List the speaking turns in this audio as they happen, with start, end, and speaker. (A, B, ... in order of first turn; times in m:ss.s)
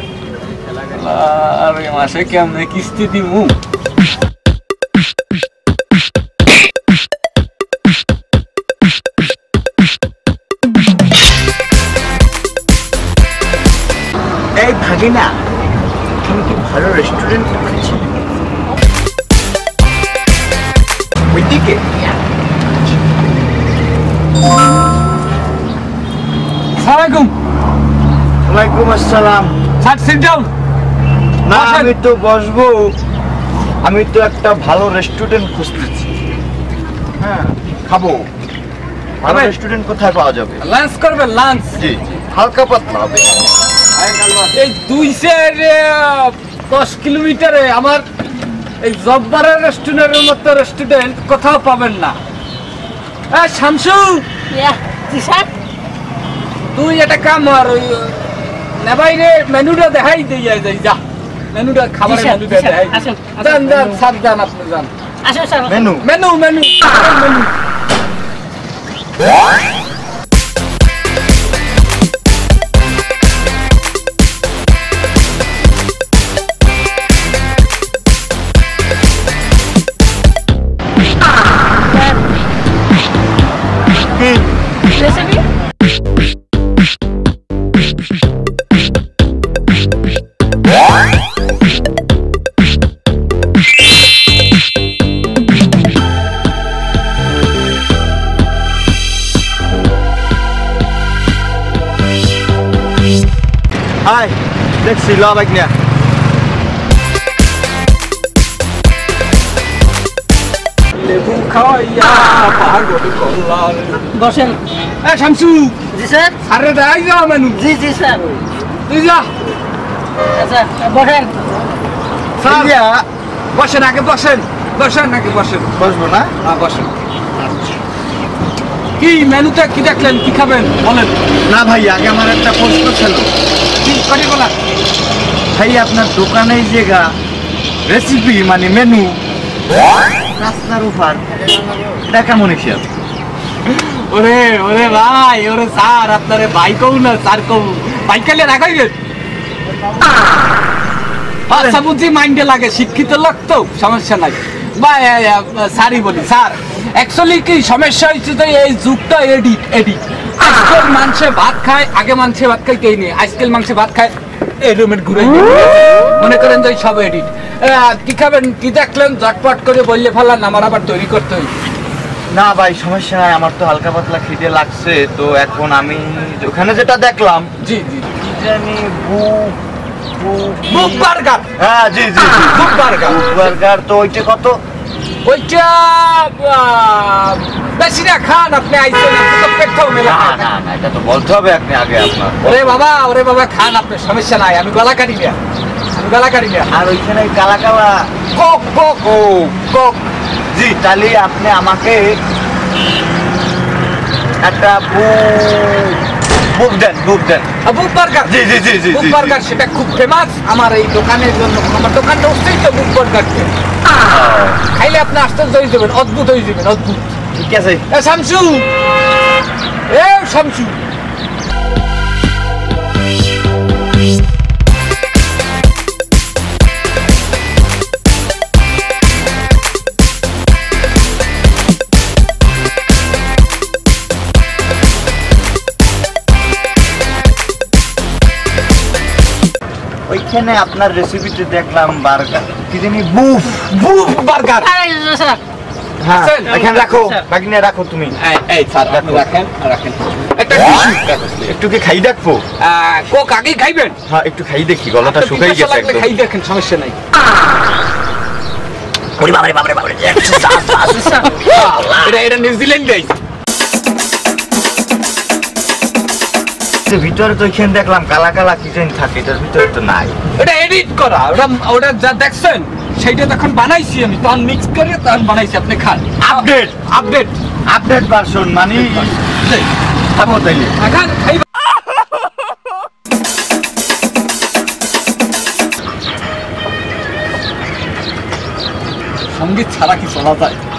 0:00.8-0:03.5 A
0:14.5-0:15.3 B
0:16.2-0:18.2 B
0:21.3-0:22.0 B
0:26.8-0:27.3 A
0:28.4-0:29.6 B
0:29.8-0:30.5 A
0:31.4-0:32.9 B
0:31.5-0:31.9 A
0:33.8-0:36.1 B
0:37.2-0:38.3 B
0:39.2-0:40.6 B
0:39.2-0:39.5 A
0:40.6-0:41.8 A
0:41.8-0:43.4 B
0:44.0-0:48.0 A
0:48.8-0:52.2 A
0:53.3-0:54.2 A
0:54.5-0:55.5 C
0:56.7-1:01.0 A
1:01.5-1:04.9 A
1:02.0-1:04.0 C
1:05.2-1:05.8 C
1:05.7-1:06.0 B
1:06.0-1:07.5 A
1:24.1-1:24.4 B
1:24.9-1:25.4 C
1:44.0-1:45.7 B
1:50.9-1:54.1 A
1:54.1-1:54.6 C
1:55.0-1:55.8 A
1:55.9-1:56.4 C
1:56.4-1:57.6 A
1:57.5-1:58.4 C
1:58.9-1:59.3 A
2:00.3-2:01.4 C
2:02.4-2:02.7 A
2:02.4-2:03.0 B
2:03.5-2:05.7 A
2:05.8-2:06.3 B
2:06.4-2:06.9 A
2:09.0-2:11.2 A
2:11.5-2:13.3 B
2:13.8-2:14.5 A
2:15.5-2:17.1 B
2:17.8-2:19.2 B
2:20.3-2:22.8 B
2:23.7-2:28.9 A
2:31.5-2:31.8 B
2:31.5-2:51.5 A
2:52.3-2:57.5 B
2:57.6-2:58.1 A
2:58.1-2:59.6 B
3:00.1-3:04.6 B
3:00.7-3:01.5 A
3:02.5-3:03.5 A
3:05.2-3:10.5 A
3:10.0-3:12.8 B
3:12.4-3:15.4 A
3:15.9-3:16.7 A
3:16.7-3:18.1 B
3:18.3-3:20.0 A
3:20.5-3:22.2 B
3:23.0-3:27.5 B
3:27.6-3:33.5 A
3:28.2-3:29.4 B
3:34.1-3:34.6 B
3:34.7-3:37.2 A
3:37.3-3:37.8 B
3:37.9-3:38.7 A
3:39.9-3:40.8 A
4:00.1-4:03.7 B
4:03.7-4:04.7 A
4:04.6-4:05.4 C
4:06.0-4:08.2 B
4:06.1-4:06.6 A
4:06.5-4:07.2 C
4:08.2-4:11.6 A
4:08.9-4:09.3 B
4:11.5-4:12.4 B
4:12.6-4:14.0 A
4:14.1-4:16.1 B
4:15.0-4:17.0 A
4:19.2-4:21.0 B
4:19.6-4:22.0 C
4:21.3-4:23.1 A
4:26.8-4:30.1 B
4:30.4-4:37.3 A
4:36.2-4:36.8 B
4:37.7-4:39.2 B
4:40.1-4:40.7 B
4:40.8-4:41.5 A
4:49.3-4:50.6 A